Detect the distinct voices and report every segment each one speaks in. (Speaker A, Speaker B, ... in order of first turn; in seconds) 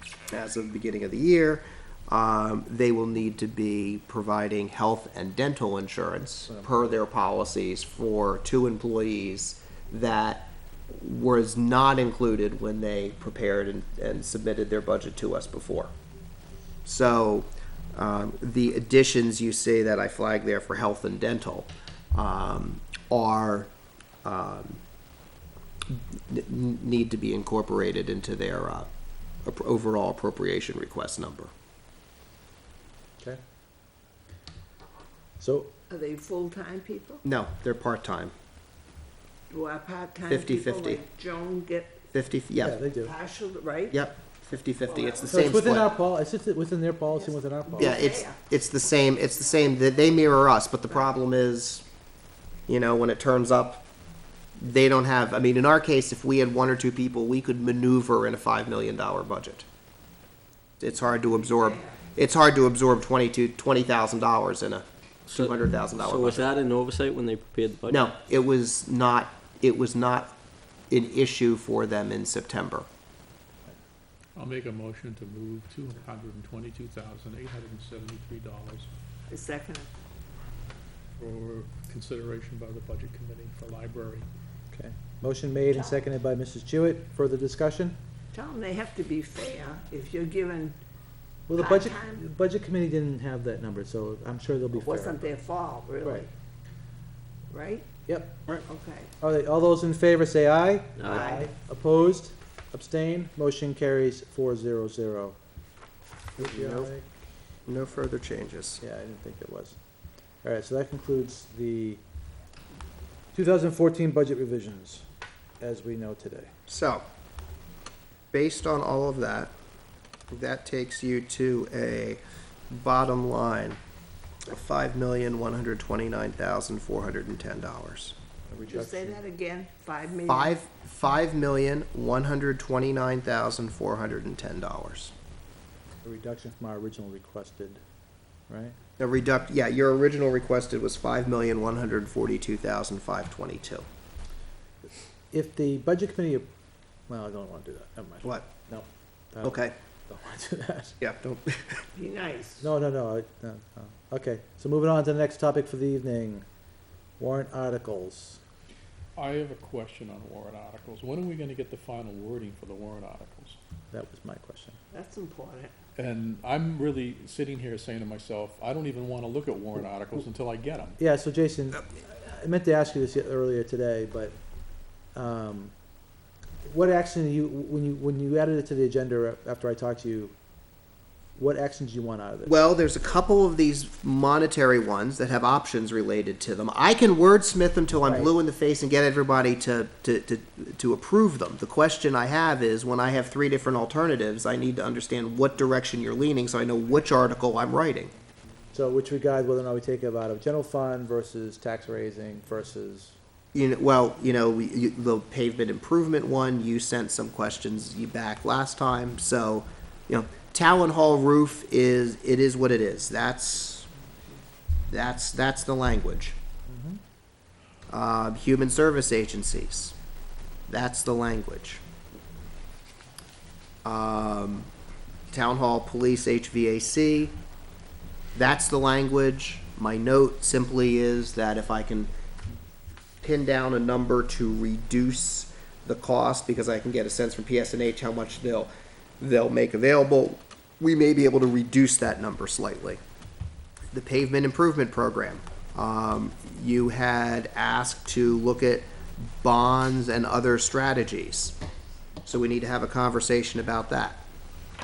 Speaker A: 0.3-15.9, 16.9-23.7, 24.2-24.8, 25.9-28.9, 29.4-31.5, 37.2-38.3, 40.3-41.0, 42.1-42.8, 43.9-45.9, 47.8-51.9, 52.7-53.8, 54.6-59.6, 60.8-66.5, 67.9-70.3, 70.9-72.9, 106.4-106.9, 107.7-108.8, 116.7-117.0, 118.3-119.5, 120.3-123.8, 124.5-128.2, 130.3-135.1, 139.0-143.8, 149.4-149.7, 151.0-151.9, 182.5-198.1, 203.5-213.9, 214.9-216.3, 217.9-219.9, 220.7-221.8, 223.8-224.7, 225.3-227.4, 228.3-232.1, 233.2-243.0, 243.9-251.6, 252.2-254.2
Speaker B: 35.4-35.7, 42.6-43.1, 45.3-48.0, 84.7-88.0, 91.5-95.3, 96.0-96.3, 98.1-98.6, 99.2-105.3, 106.4-107.1, 108.8-109.8, 110.4-112.0, 113.3-115.0, 115.6-116.5, 128.5-129.2, 136.0-137.8, 138.5-138.8, 145.3-146.5, 147.1-151.0, 152.6-156.4, 157.2-158.4, 163.9-164.8, 171.0-174.4, 175.1-175.7, 176.6-180.3, 181.3-182.6, 188.0-188.3, 198.7-203.2, 216.7-217.0
Speaker C: 35.9-37.2, 39.5-42.0, 43.0-44.0, 44.8-45.6, 47.2-48.4, 79.3-79.9, 88.3-90.8, 91.6-92.2, 94.7-96.3, 97.5-97.9, 98.7-99.1, 101.0-101.5, 128.7-130.6, 151.9-152.7, 164.9-165.7
Speaker D: 65.3-68.1
Speaker E: 74.3-78.9, 81.2-84.3, 159.2-163.6, 165.9-171.0